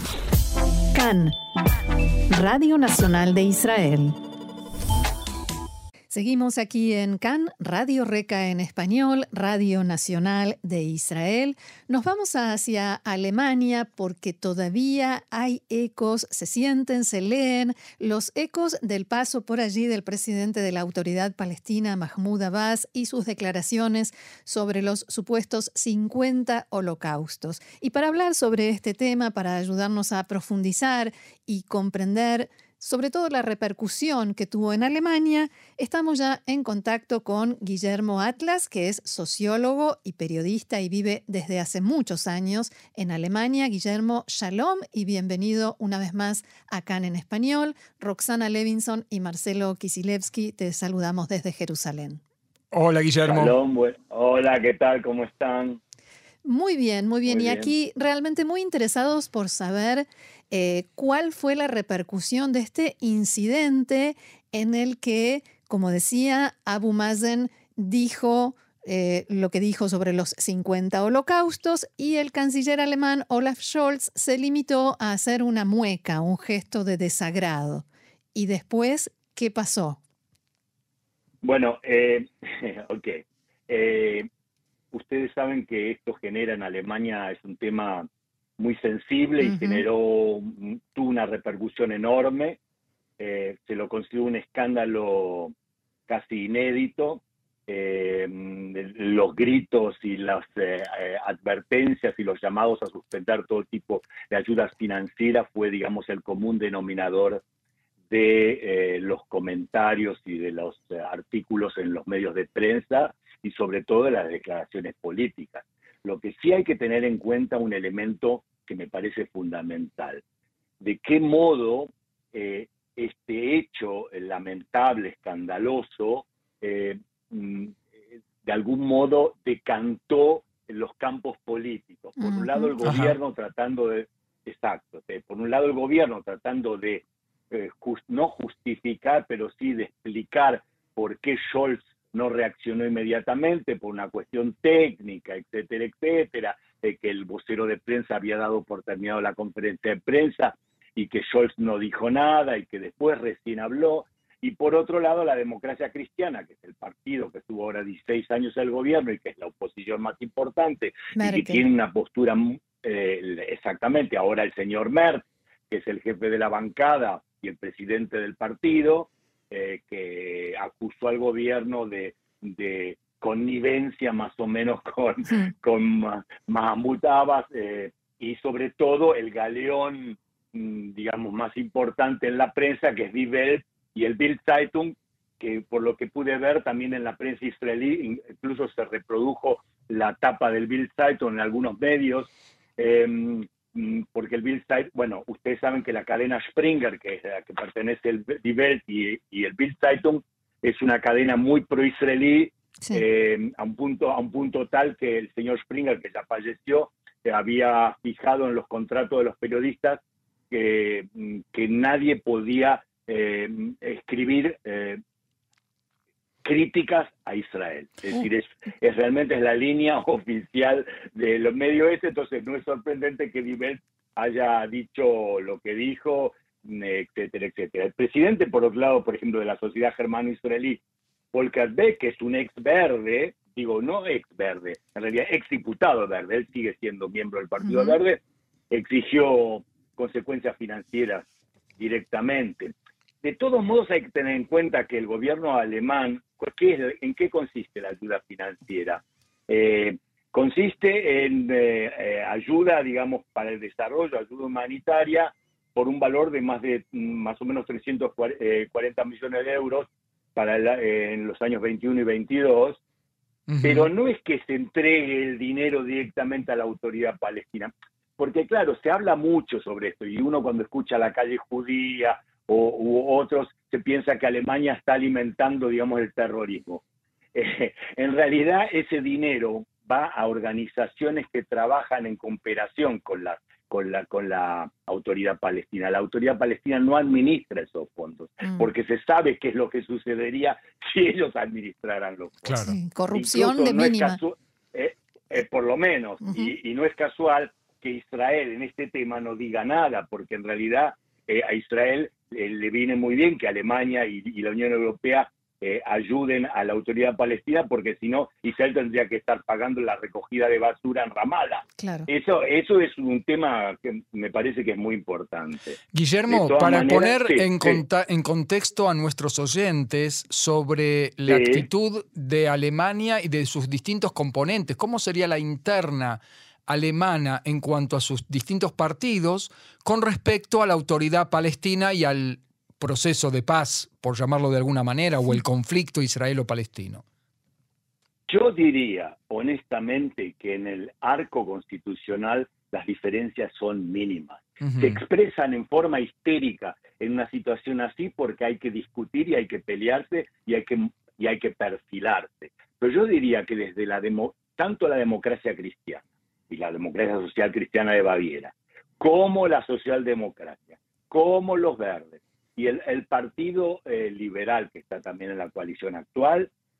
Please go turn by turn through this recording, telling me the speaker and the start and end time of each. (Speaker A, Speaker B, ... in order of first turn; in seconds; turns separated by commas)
Speaker A: 0.9-1.4, Speaker A: 2.3-4.2, Speaker A: 6.1-52.2, Speaker B: 52.7-53.5, Speaker C: 53.2-55.8, Speaker A: 56.4-80.0, Speaker C: 57.3-57.7, Speaker C: 81.4-84.3, Speaker C: 84.9-88.1, Speaker C: 88.6-92.6, Speaker A: 89.4-89.8, Speaker C: 93.2-95.5, Speaker C: 96.1-107.4, Speaker C: 108.1-120.2, Speaker C: 120.8-127.8, Speaker C: 128.4-215.0, Speaker A: 132.2-132.7, Speaker B: 132.8-133.2, Speaker A: 161.2-161.6, Speaker C: 216.4-230.8, Speaker C: 231.3-241.3, Speaker A: 237.6-238.0, Speaker C: 241.8-262.8, Speaker B: 263.5-263.9, Speaker C: 263.6-276.8, Speaker C: 277.4-292.6, Speaker B: 292.5-292.8, Speaker A: 292.6-294.2, Speaker C: 293.1-315.8, Speaker A: 296.2-296.5, Speaker A: 311.8-312.1, Speaker B: 315.9-337.0, Speaker C: 316.3-317.8, Speaker C: 321.3-321.7, Speaker C: 338.3-366.5, Speaker B: 344.6-345.0